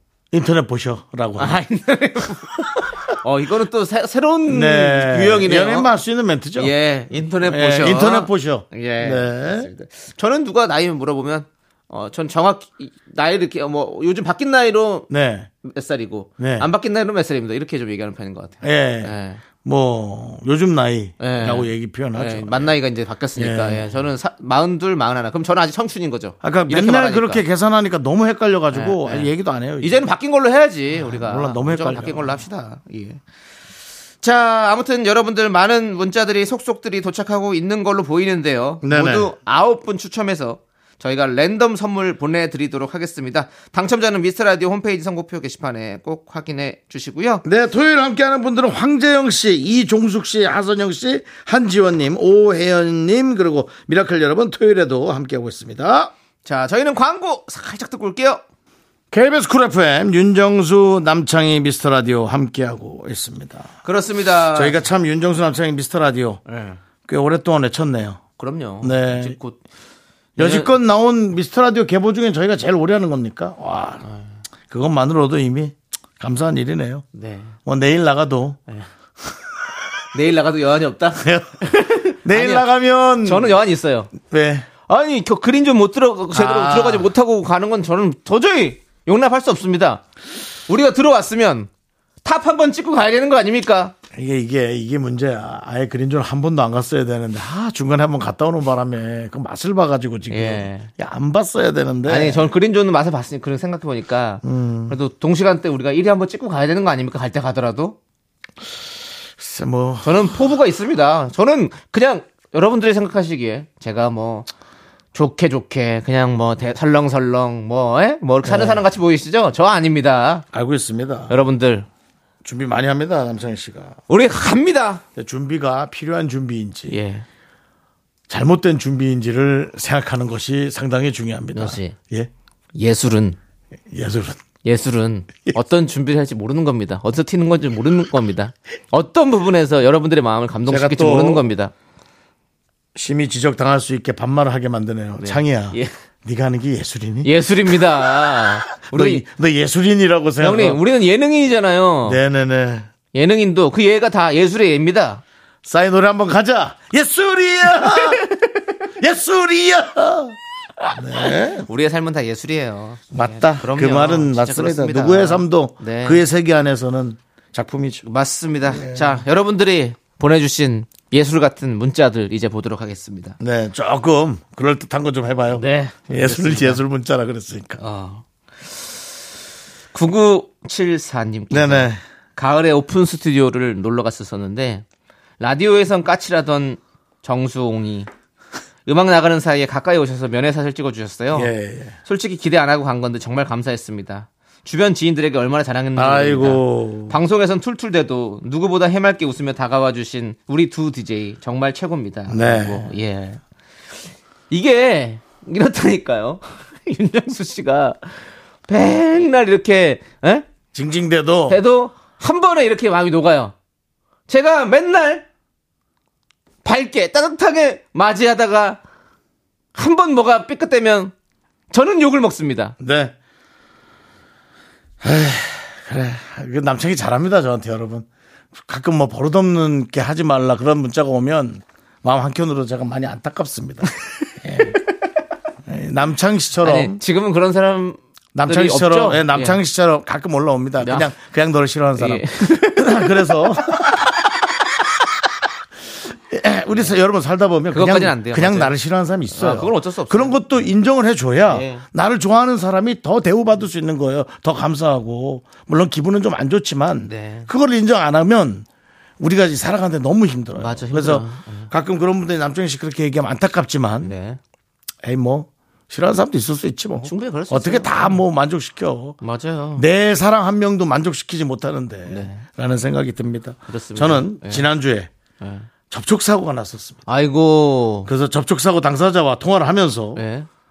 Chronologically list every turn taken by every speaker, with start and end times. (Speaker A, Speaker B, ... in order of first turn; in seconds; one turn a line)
Speaker A: 0.3-1.6
Speaker B: 1.4-5.9
Speaker A: 4.5-6.7
Speaker B: 6.6-15.1
Speaker A: 7.4-9.7
Speaker A: 15.1-15.5
Speaker B: 15.6-19.4
Speaker A: 16.4-16.7
Speaker A: 18.6-22.7
Speaker B: 21.2-27.4
Speaker A: 23.4-23.9
Speaker A: 26.4-30.0
Speaker B: 28.7-29.3
Speaker B: 29.8-33.2
Speaker A: 30.9-32.4
Speaker B: 34.2-47.4
Speaker A: 38.8-39.3
Speaker A: 47.4-56.1
Speaker B: 56.4-58.4
Speaker A: 59.1-63.7
Speaker B: 63.8-64.8
Speaker A: 64.5-66.4
Speaker B: 66.5-66.8
Speaker A: 67.0-68.2
Speaker B: 68.4-69.6
Speaker A: 68.8-69.4
Speaker A: 70.4-74.0
Speaker B: 70.4-70.7
Speaker A: 74.7-77.0
Speaker B: 77.1-77.5
Speaker A: 77.7-78.6
Speaker B: 80.1-82.7
Speaker A: 81.2-83.6
Speaker B: 83.2-84.1
Speaker A: 84.2-84.7
Speaker B: 84.9-90.0
Speaker A: 86.3-87.1
Speaker B: 90.7-91.7
Speaker B: 92.2-93.9
Speaker A: 94.1-102.5
Speaker B: 100.3-100.9
Speaker B: 102.1-108.0
Speaker A: 104.4-105.0
Speaker A: 109.4-110.4
Speaker B: 110.0-114.5
Speaker B: 115.1-120.5
Speaker A: 118.4-118.8
Speaker A: 120.5-121.3
Speaker B: 121.3-121.9
Speaker A: 122.4-124.0
Speaker B: 124.1-125.0
Speaker A: 125.2-127.0
Speaker B: 126.9-127.2
Speaker A: 128.3-132.3
Speaker B: 131.5-132.0
Speaker B: 132.8-133.4
Speaker A: 133.9-134.4
Speaker B: 134.6-141.7
Speaker A: 140.7-141.4
Speaker A: 142.9-150.8
Speaker B: 145.2-145.9
Speaker B: 147.2-149.2
Speaker B: 150.4-152.2
Speaker A: 152.1-152.9
Speaker B: 153.1-155.2
Speaker A: 155.6-158.2
Speaker B: 157.9-158.2
Speaker A: 159.0-161.7
Speaker B: 161.7-166.2
Speaker A: 163.1-168.0
Speaker B: 168.0-173.4
Speaker A: 168.7-169.2
Speaker A: 173.4-177.8
Speaker B: 175.5-176.8
Speaker B: 177.8-178.2
Speaker B: 179.9-184.8
Speaker A: 181.5-182.0
Speaker B: 185.4-188.1
Speaker B: 188.8-191.5
Speaker A: 191.3-191.9
Speaker B: 192.1-203.4
Speaker A: 195.9-197.2
Speaker A: 202.3-202.9
Speaker B: 204.5-208.1
Speaker B: 208.7-210.4
Speaker A: 210.7-211.6
Speaker B: 211.5-213.5
Speaker B: 214.3-215.2
Speaker B: 216.6-218.8
Speaker B: 219.7-221.1
Speaker B: 221.7-222.7
Speaker A: 222.8-223.1
Speaker A: 225.0-228.1
Speaker A: 228.6-234.8
Speaker A: 235.7-236.9
Speaker B: 236.6-239.6
Speaker A: 238.3-244.0
Speaker B: 240.8-241.1
Speaker B: 242.0-243.9
Speaker A: 246.3-258.6
Speaker B: 247.7-248.8
Speaker B: 249.3-250.4
Speaker B: 251.4-251.8
Speaker B: 257.0-257.5
Speaker A: 259.2-264.1
Speaker B: 260.6-261.7
Speaker B: 264.0-264.4
Speaker A: 265.0-269.2
Speaker B: 267.0-268.2
Speaker B: 269.2-269.8
Speaker A: 269.8-275.1
Speaker B: 272.1-272.4
Speaker B: 273.7-274.6
Speaker B: 275.4-275.7
Speaker A: 275.9-277.0
Speaker B: 277.1-278.1
Speaker A: 278.0-280.2
Speaker B: 280.1-280.5